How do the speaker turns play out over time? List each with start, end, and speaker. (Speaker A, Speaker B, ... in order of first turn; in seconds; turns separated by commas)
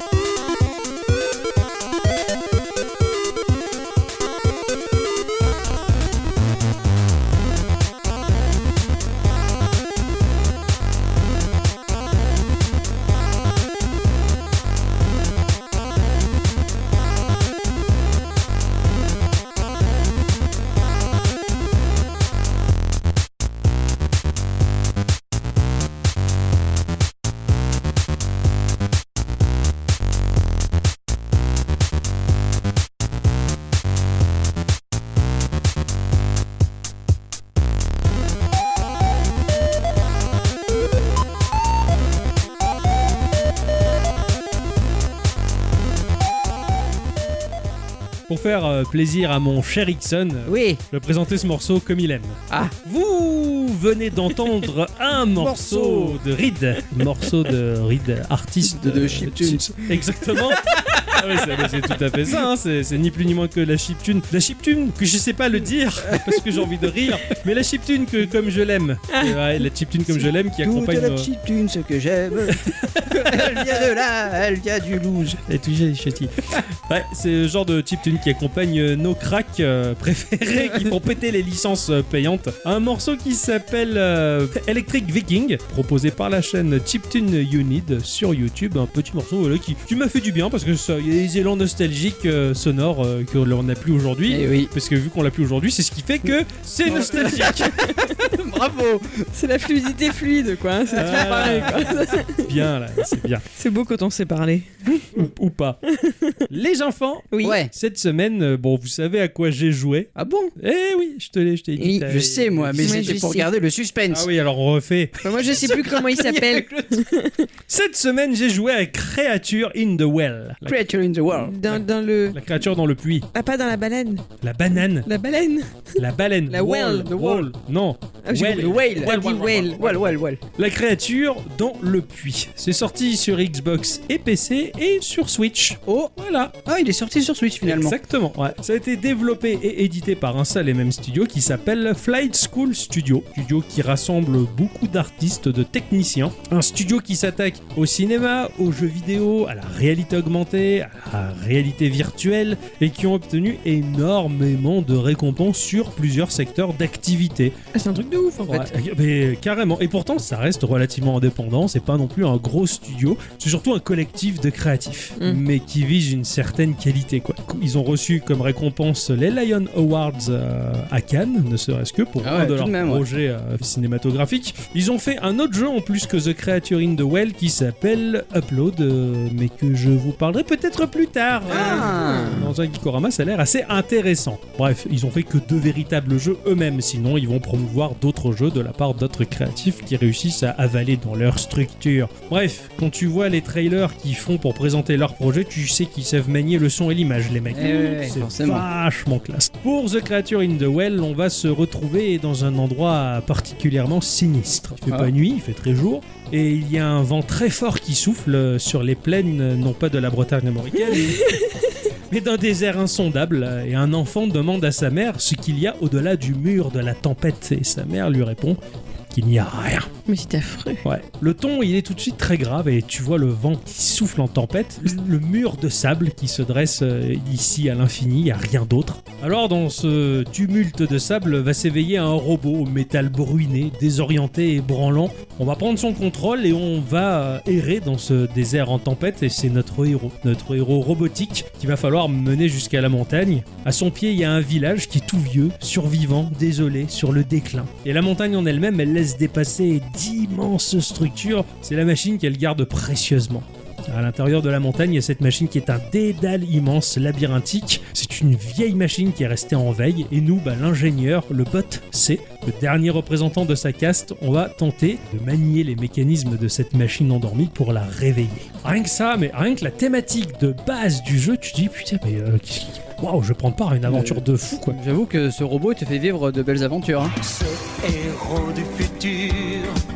Speaker A: 48.3-71.3, Speaker B: 50.5-50.8, Speaker B: 52.5-52.7, Speaker B: 55.4-56.2, Speaker B: 58.6-61.8, Speaker B: 66.0-66.4, Speaker B: 70.1-75.4, Speaker A: 72.4-73.8, Speaker A: 75.4-97.7, Speaker B: 94.3-94.7, Speaker B: 96.9-99.3, Speaker C: 97.4-98.3, Speaker C: 99.3-102.5, Speaker A: 100.9-103.4, Speaker B: 101.0-101.9, Speaker C: 103.5-105.1, Speaker A: 105.1-105.8, Speaker C: 105.9-106.5, Speaker A: 106.5-113.2, Speaker B: 107.4-107.7, Speaker B: 110.2-110.5, Speaker B: 111.8-114.3, Speaker C: 112.8-113.5, Speaker A: 114.1-115.8, Speaker C: 115.2-117.5, Speaker B: 115.3-117.0, Speaker A: 117.7-120.8, Speaker B: 120.6-121.5, Speaker C: 121.3-122.4, Speaker A: 121.6-123.3, Speaker C: 123.3-124.2, Speaker A: 124.4-125.1, Speaker C: 124.8-126.0, Speaker A: 126.0-136.6, Speaker B: 126.5-127.5, Speaker C: 126.6-127.1, Speaker C: 128.2-129.8, Speaker B: 128.4-130.4, Speaker B: 135.9-136.1, Speaker B: 136.6-137.9, Speaker A: 137.6-157.6, Speaker C: 157.7-158.7, Speaker A: 158.4-211.4, Speaker B: 172.2-173.0, Speaker B: 181.5-182.5, Speaker C: 181.5-182.3, Speaker B: 197.5-198.7, Speaker C: 210.9-211.7, Speaker A: 212.1-218.6, Speaker A: 219.1-219.9, Speaker C: 220.1-220.8, Speaker A: 220.8-274.8, Speaker B: 273.9-277.1, Speaker D: 277.2-279.8